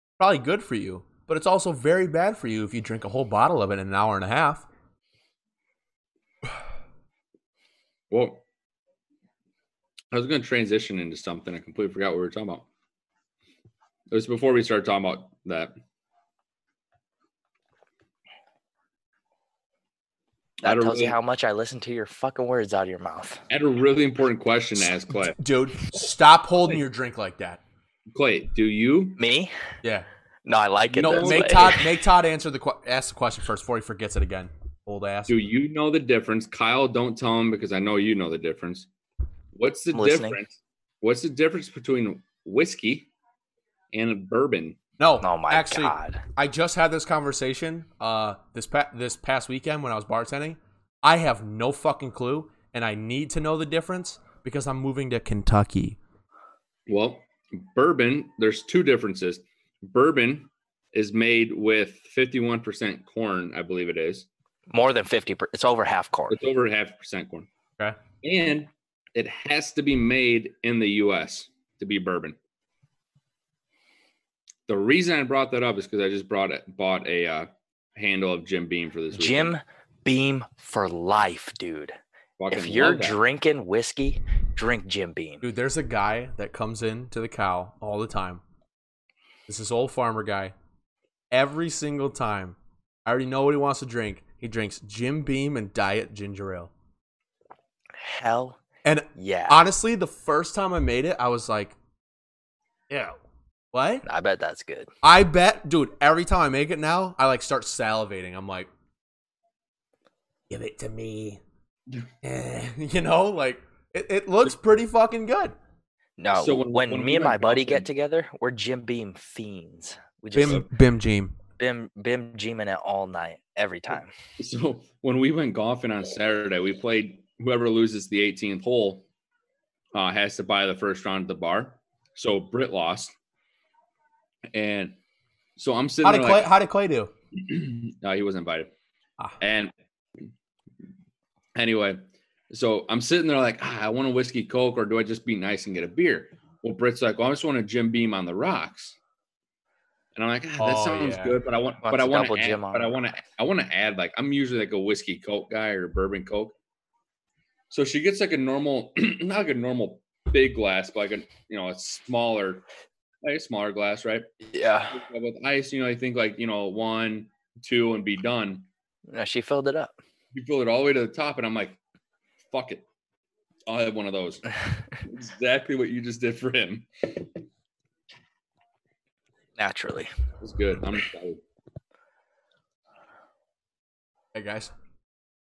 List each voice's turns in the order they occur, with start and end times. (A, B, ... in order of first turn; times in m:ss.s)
0:00.2-0:04.7 A
0:08.1-0:08.4 B
0:10.1-0:12.6 B
0:14.1-0:15.8 B
0:20.6-0:21.2 B
0:20.6-0:23.4 C
0:23.5-0:25.4 B
0:25.2-0:27.6 A
0:28.1-0:29.2 B
0:29.2-0:29.5 C
0:30.5-0:31.9 C
0:30.9-0:31.7 B
0:31.0-0:35.4 A
0:35.3-0:38.9 B
0:39.5-0:43.1 B
0:39.9-0:40.4 C
0:43.9-0:44.8 B
0:45.0-0:56.0 A
0:45.2-0:46.2 C
0:56.9-1:04.3 B
1:04.7-1:06.4 C
1:06.3-1:07.5 B
1:08.2-1:12.4 B
1:14.7-1:19.6 B
1:19.1-1:22.0 C
1:22.4-1:23.2 B
1:22.5-1:25.4 C
1:25.4-1:28.4 A
1:29.5-1:30.5 A
1:31.3-1:36.7 A
1:38.0-1:38.6 C
1:38.8-1:41.8 A
1:39.2-1:39.6 C
1:42.9-1:43.2 A
1:43.7-1:44.0 A
1:44.0-1:44.9 C
1:45.0-1:48.7 A
1:50.5-1:51.4 A
1:52.2-1:55.6 A
1:56.2-2:00.7 C
1:56.3-1:57.9 B
2:00.3-2:01.4 A
2:00.4-2:00.7 B
2:01.6-2:04.1 C
2:04.4-2:09.0 B
2:09.9-2:13.1 B
2:14.5-2:15.0 B
2:15.6-2:16.5 B
2:16.0-2:17.1 A
2:17.3-2:18.7 B
2:19.4-2:19.7 B
2:21.6-2:29.0 B
2:30.2-2:36.6 B
2:30.6-2:31.4 A
2:31.9-2:32.9 C
2:37.7-2:42.6 B
2:43.2-2:44.3 B
2:44.5-2:45.0 C
2:44.9-2:48.7 B
2:49.1-2:49.9 C
2:50.3-2:51.8 B
2:52.5-2:52.8 B
2:53.7-2:57.4 B
2:59.6-3:00.1 C
3:00.4-3:01.4 B
3:04.3-3:04.7 A